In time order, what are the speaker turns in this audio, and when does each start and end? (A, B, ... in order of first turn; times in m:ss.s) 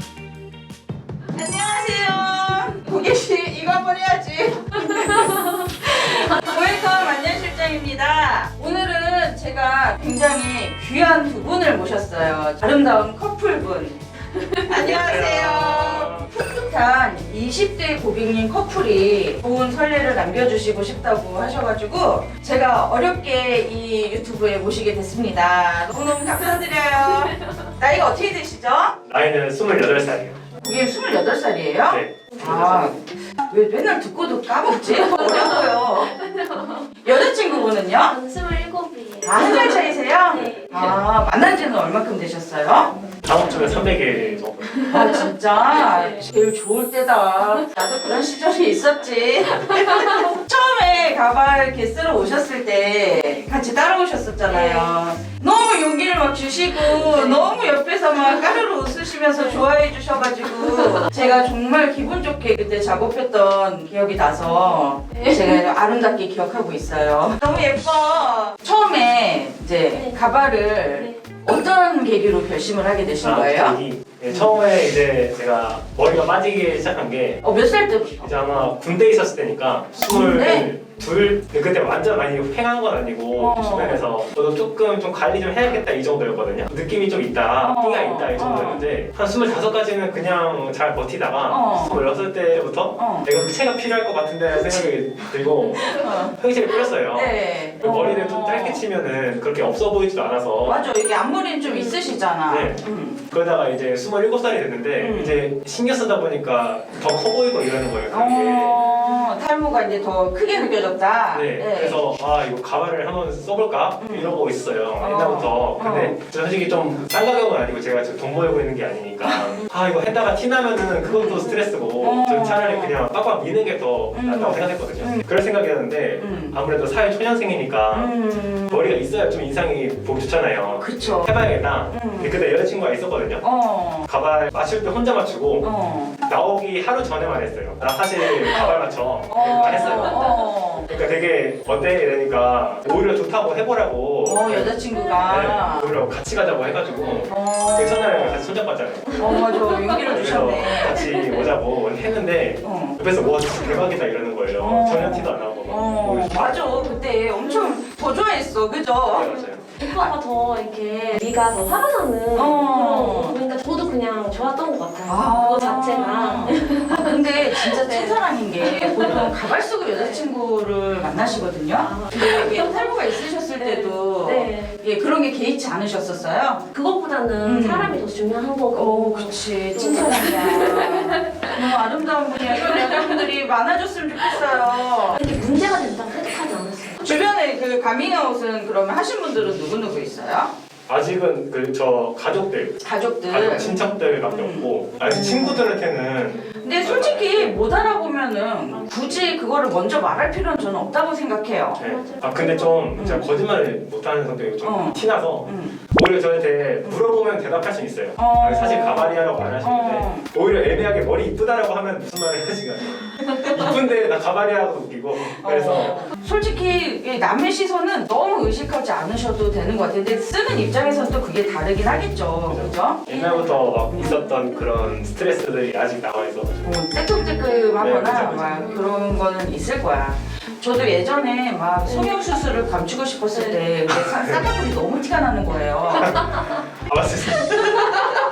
0:01.3-0:14.0 A
0:04.9-0:05.6 B
0:14.4-0:14.7 B
0:14.6-0:28.9 A
0:14.9-0:16.3 C
0:27.4-0:27.7 B
0:29.1-0:30.4 C
0:30.6-0:36.2 A
0:31.9-0:33.0 C
0:34.6-0:41.0 B
0:37.0-0:38.2 A
0:39.2-0:42.9 A
0:43.2-0:44.7 C
0:43.4-0:46.2 B
0:44.9-1:13.8 A
0:47.6-0:48.0 B
0:49.5-0:50.3 B
0:54.5-0:54.9 B
0:56.8-0:57.6 B
0:59.3-0:59.6 B
1:00.5-1:01.5 B
1:04.4-1:05.6 B
1:09.9-1:11.2 B
1:13.2-1:17.4 C
1:17.4-1:18.4 A
1:18.2-1:40.9 C
1:20.0-1:20.7 A
1:23.4-1:24.0 A
1:27.6-1:28.9 A
1:31.5-1:32.0 A
1:33.0-1:33.3 A
1:34.5-1:34.9 A
1:35.8-1:38.8 A
1:40.6-1:43.2 A
1:41.7-1:42.2 B
1:42.5-1:48.8 C
1:45.0-1:45.4 A
1:48.1-1:52.0 A
1:51.3-2:08.2 C
1:54.0-1:54.4 A
1:55.0-1:56.2 A
1:59.2-1:59.5 A
2:01.0-2:03.0 A
2:04.1-2:05.3 A
2:06.2-2:06.6 A
2:07.9-2:08.9 A
2:08.7-2:13.5 C
2:10.8-2:11.4 A
2:11.9-2:12.4 A
2:13.4-2:14.1 A
2:14.0-2:15.7 C
2:15.6-2:16.2 A
2:16.2-2:20.3 C
2:18.2-2:20.9 A
2:19.6-2:20.2 B
2:20.9-2:29.2 C
2:24.2-2:26.0 A
2:27.3-2:28.5 A
2:29.2-2:30.2 B
2:29.2-2:31.0 A
2:30.1-2:36.7 C
2:31.0-2:31.4 B
2:32.6-2:33.0 A
2:34.6-2:39.3 A
2:37.4-2:37.8 B
2:39.1-2:39.7 C
2:39.1-2:49.4 B
2:39.8-2:40.1 A
2:42.4-2:43.4 A
2:45.1-2:56.6 A
2:49.9-2:50.3 B
2:51.1-2:54.8 B
2:56.7-3:01.8 B
2:57.4-2:58.0 A
2:58.7-3:05.2 A
3:02.4-3:03.3 B
3:05.1-3:07.0 B
3:07.0-3:10.5 A
3:10.9-3:17.6 C
3:12.8-3:15.7 A
3:13.6-3:13.9 B
3:16.3-3:16.8 B
3:16.6-3:21.8 A
3:17.8-3:18.1 B
3:18.7-3:19.4 B
3:21.8-3:22.9 B
3:21.8-3:36.1 C
3:23.0-3:23.3 A
3:24.6-3:25.8 A
3:28.2-3:30.3 A
3:33.2-3:33.7 B
3:35.4-3:43.0 A
3:42.4-3:46.6 C
3:43.1-3:44.5 B
3:46.6-3:56.2 A
3:47.4-3:47.7 B
3:47.8-3:48.7 C
3:48.6-3:49.1 B
3:51.8-3:52.3 B
3:53.3-3:53.6 B
3:53.9-3:54.4 C
3:55.9-3:56.7 B
3:56.0-3:58.1 C
3:57.9-3:58.2 A